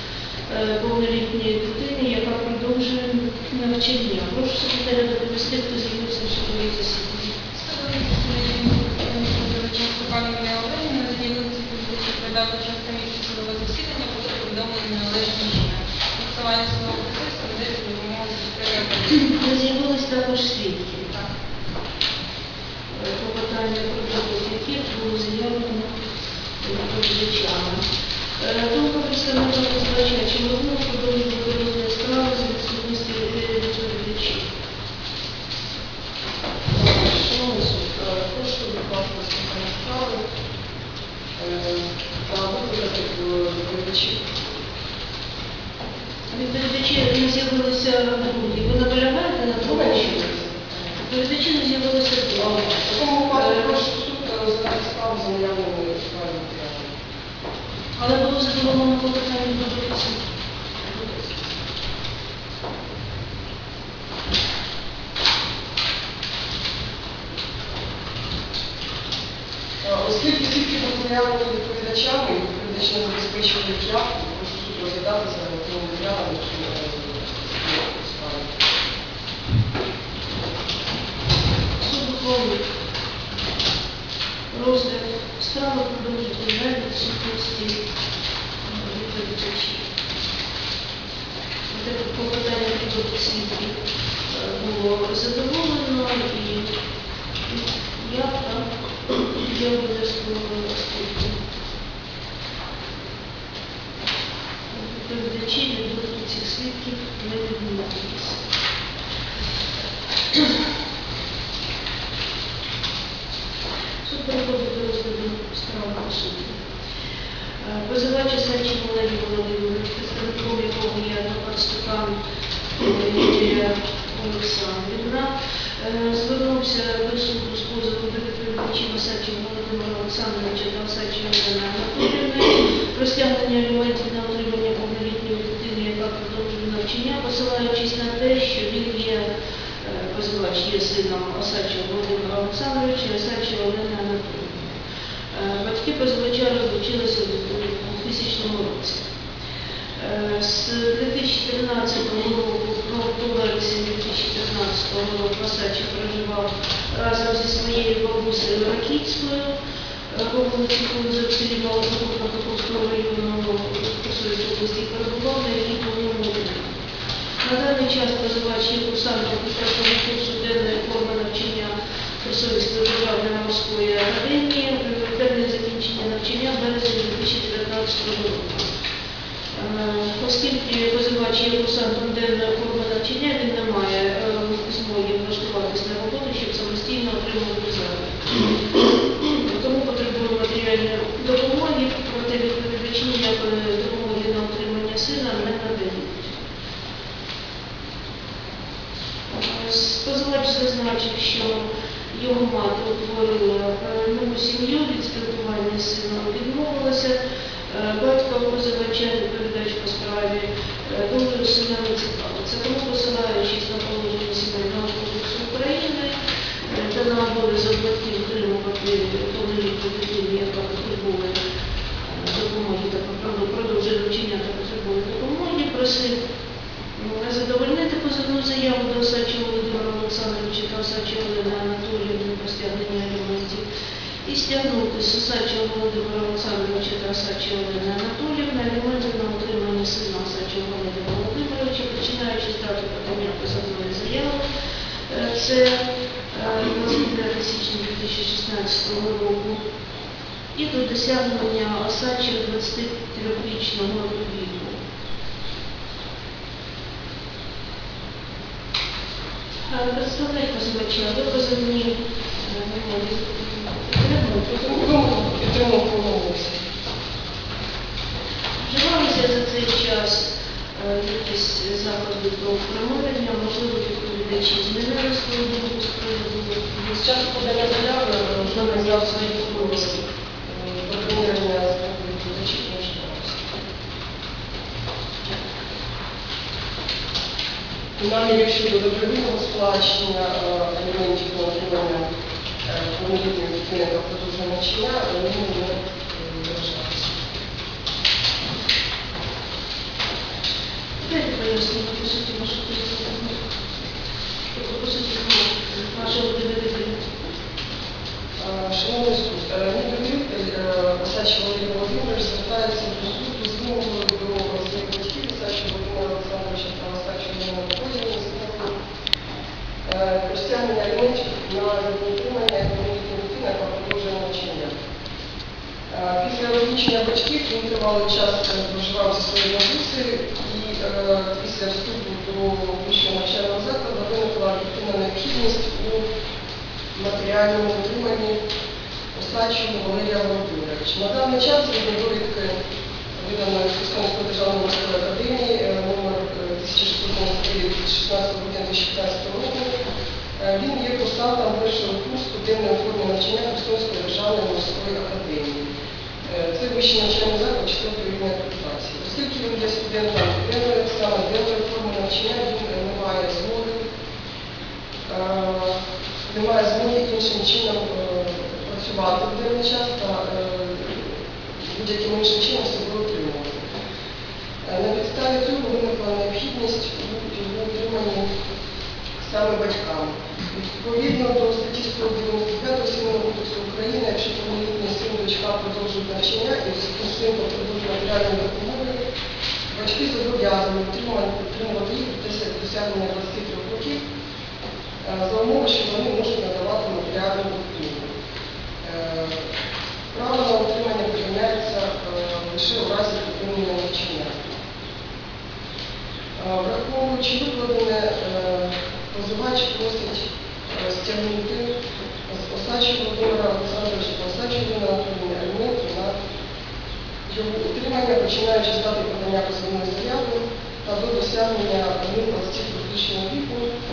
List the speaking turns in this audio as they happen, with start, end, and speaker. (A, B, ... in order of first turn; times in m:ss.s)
0:00.5-0:07.4 A
0:07.6-0:19.3 B
0:19.2-0:21.2 A
0:22.9-0:25.9 A
0:26.6-0:27.8 A
0:28.4-0:34.5 A
0:36.7-0:40.2 C
0:41.4-0:44.4 C
0:46.3-0:50.2 A
0:49.6-0:50.9 C
0:51.0-0:53.8 A
0:52.7-0:56.9 C
0:58.0-1:00.2 A
1:00.8-1:01.4 A
1:09.8-1:18.5 C
1:21.8-1:22.7 A
1:24.5-1:27.9 A
1:28.6-1:29.9 A
1:31.7-1:33.8 A
1:34.3-1:36.7 A
1:37.5-1:41.4 A
1:44.7-1:48.4 A
1:50.3-1:50.6 A
1:54.0-1:56.6 A
1:57.6-2:02.2 A
2:02.8-2:19.3 A
2:19.8-2:24.8 A
2:25.3-2:29.1 A
2:30.0-2:39.6 A
2:40.1-2:46.8 A
2:47.4-2:58.7 A
2:59.5-3:16.4 A
3:19.3-3:41.4 A
3:42.0-3:46.2 A
3:47.0-3:53.6 A
3:54.2-4:04.4 A
4:05.1-4:09.6 A
4:10.5-4:14.8 A
4:19.7-4:24.5 A
4:24.4-4:26.6 C
4:28.6-4:37.6 A
4:37.0-4:43.5 C
4:38.4-4:40.0 A
4:48.0-4:52.1 C
4:52.6-4:57.2 C
5:01.0-5:03.5 A
5:04.5-5:07.2 A
5:08.4-5:18.8 C
5:19.8-5:24.8 C
5:25.9-5:36.1 C
5:37.0-5:38.4 C
5:39.1-5:42.6 C
5:43.2-5:49.7 C
5:50.4-5:55.7 C
5:56.3-6:03.8 C
6:05.1-6:13.7 C
6:14.6-6:18.3 C
6:19.2-6:29.0 C
6:29.7-6:34.0 C
6:35.0-6:38.1 C
6:38.8-6:39.5 C
6:40.1-6:44.5 C
6:46.4-6:51.7 C
6:52.3-6:56.1 C
6:57.3-7:03.7 C